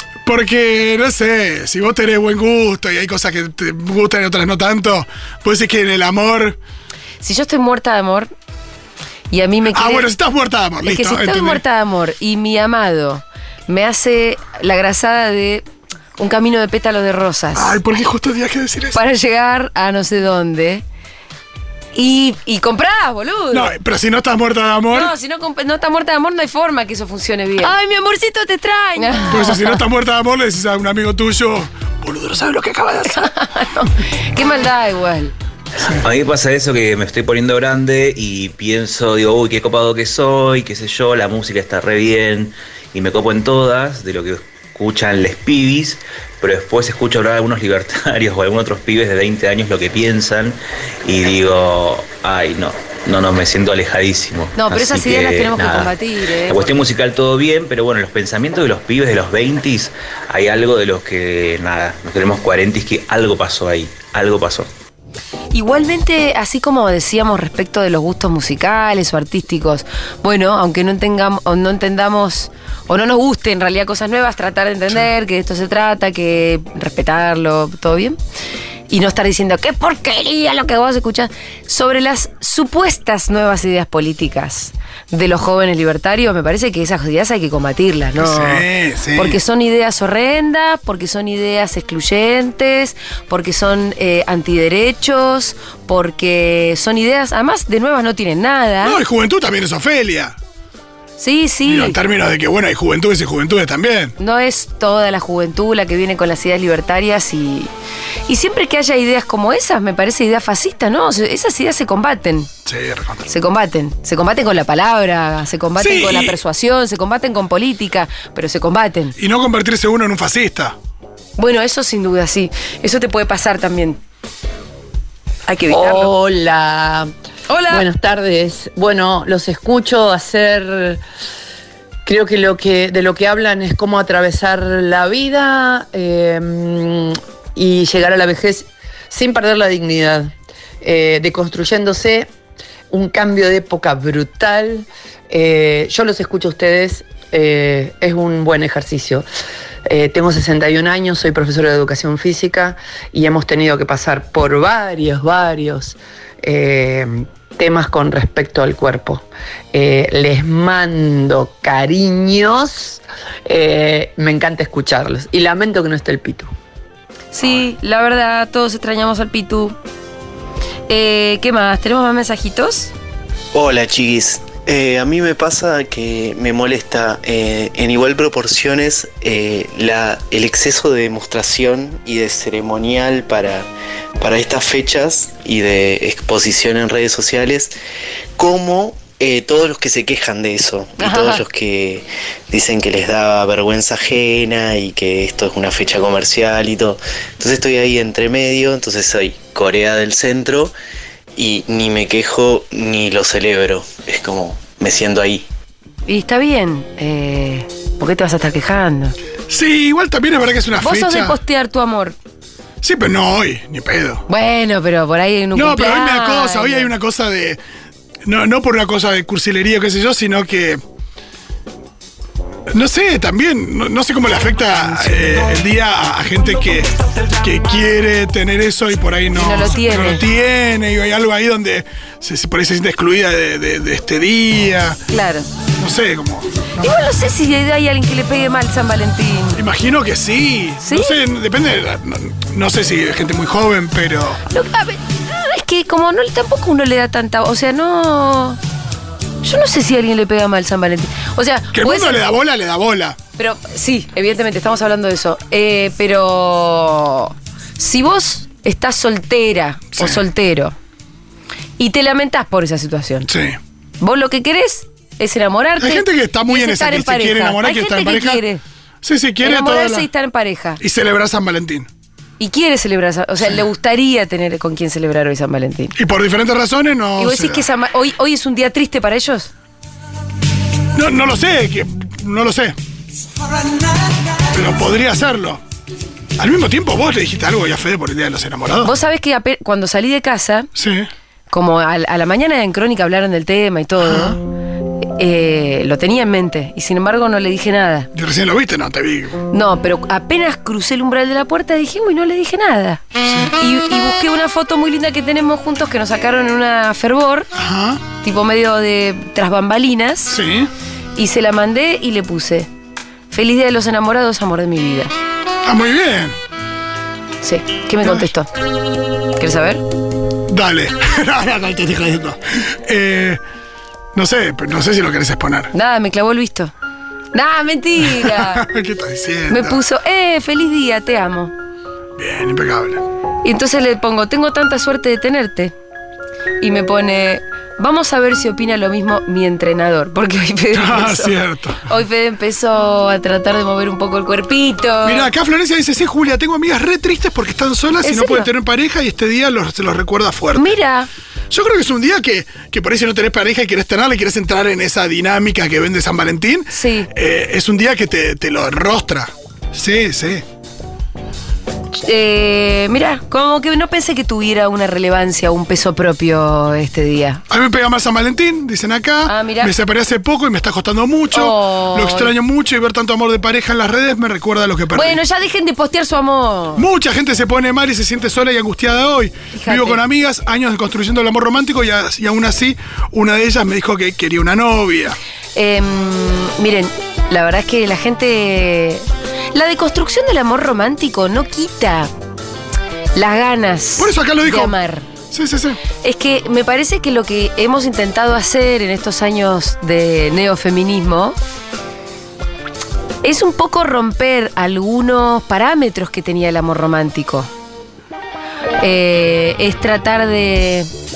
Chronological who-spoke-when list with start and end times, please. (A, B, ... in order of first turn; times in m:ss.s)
0:00.2-0:06.6 A
0:07.2-0:08.3 B
0:09.3-0:10.1 B
0:09.7-0:11.6 A
0:10.8-0:15.6 B
0:16.2-0:17.8 B
0:17.6-0:19.0 A
0:18.9-0:20.8 B
0:21.9-0:23.7 B
0:23.5-0:25.1 A
0:24.9-0:29.8 B
0:29.2-0:33.3 A
0:33.1-0:35.3 B
0:35.9-0:55.9 C
0:54.6-0:56.7 B
0:56.4-1:04.7 C
1:05.5-1:18.2 B
1:18.9-1:28.6 B
1:28.2-1:29.4 A
1:29.1-1:39.0 B
1:38.8-1:40.3 A
1:41.2-1:42.0 B
1:41.6-1:44.1 A
1:44.2-1:47.7 B
1:48.3-1:52.5 B
1:52.6-1:53.3 A
1:53.3-1:59.1 B
1:55.8-1:56.4 A
1:59.2-2:00.7 A
2:01.4-2:04.0 B
2:05.5-2:06.1 B
2:05.6-2:07.1 D
2:07.5-2:07.9 B
2:07.7-2:11.0 D
2:12.0-2:22.3 D
2:22.9-2:29.2 D
2:29.8-2:46.5 D
2:47.3-2:49.8 B
2:50.9-2:52.9 B
2:53.5-3:03.7 E
3:04.2-3:07.7 E
3:08.4-3:20.7 E
3:11.0-3:11.4 B
3:21.4-3:25.5 E
3:26.1-3:29.1 B
3:29.5-3:31.4 A
3:30.8-3:32.2 B
3:32.8-3:34.2 A
3:34.3-3:36.9 B
3:35.5-3:37.6 A
3:38.2-3:40.8 A
3:42.7-3:55.0 A
3:49.3-3:50.2 B
3:55.1-3:55.5 B
3:55.8-3:56.7 A
3:56.8-3:59.6 B
3:59.6-4:04.4 A
4:00.8-4:01.2 B
4:04.5-4:08.6 B
4:09.4-4:12.2 B
4:11.7-4:13.2 A
4:13.4-4:20.7 B
4:21.8-4:23.3 B
4:23.3-4:23.6 A
4:24.0-4:28.6 B
4:25.8-4:28.4 A
4:29.0-4:30.1 A
4:29.4-4:30.8 B
4:30.8-4:31.9 A
4:32.4-4:35.9 B
4:36.0-4:37.6 A
4:37.2-4:39.5 B
4:40.9-4:42.8 A
4:44.5-4:45.6 A
4:46.4-4:48.9 A
4:48.8-4:50.7 B
4:50.7-4:51.1 A
4:51.5-4:54.4 B
4:54.0-4:54.4 A
4:55.0-4:58.1 B
4:58.1-4:59.4 A
4:59.5-5:03.0 B
5:03.2-5:03.5 A
5:03.5-5:07.5 B
5:07.5-5:08.0 A
5:08.2-5:10.4 B
5:10.3-5:10.7 A
5:11.2-5:12.7 B
5:13.3-5:15.1 B
5:15.6-5:16.4 A
5:17.4-5:18.5 B
5:19.4-5:19.8 B
5:20.5-5:23.4 A
5:24.1-5:25.7 A
5:25.7-5:26.7 B
5:27.3-5:28.6 B
5:28.0-5:29.8 A
5:29.5-5:31.5 B
5:32.2-5:33.0 A
5:33.4-5:35.7 B
5:36.6-5:45.3 B
5:40.7-5:41.8 A
5:45.0-5:50.7 A
5:48.0-5:48.5 B
5:50.5-5:51.1 B
5:51.5-6:00.4 A
5:56.7-5:57.1 B
6:02.0-6:07.4 B
6:07.5-6:15.2 A
6:09.2-6:09.7 B
6:11.3-6:12.3 B
6:14.9-6:16.9 B
6:16.8-6:25.2 A
6:19.5-6:20.0 B
6:25.5-6:32.1 B
6:33.1-6:35.1 B
6:34.0-6:34.7 A
6:35.3-6:35.8 A
6:36.0-6:41.4 B
6:43.2-6:47.5 B
6:48.8-6:50.9 B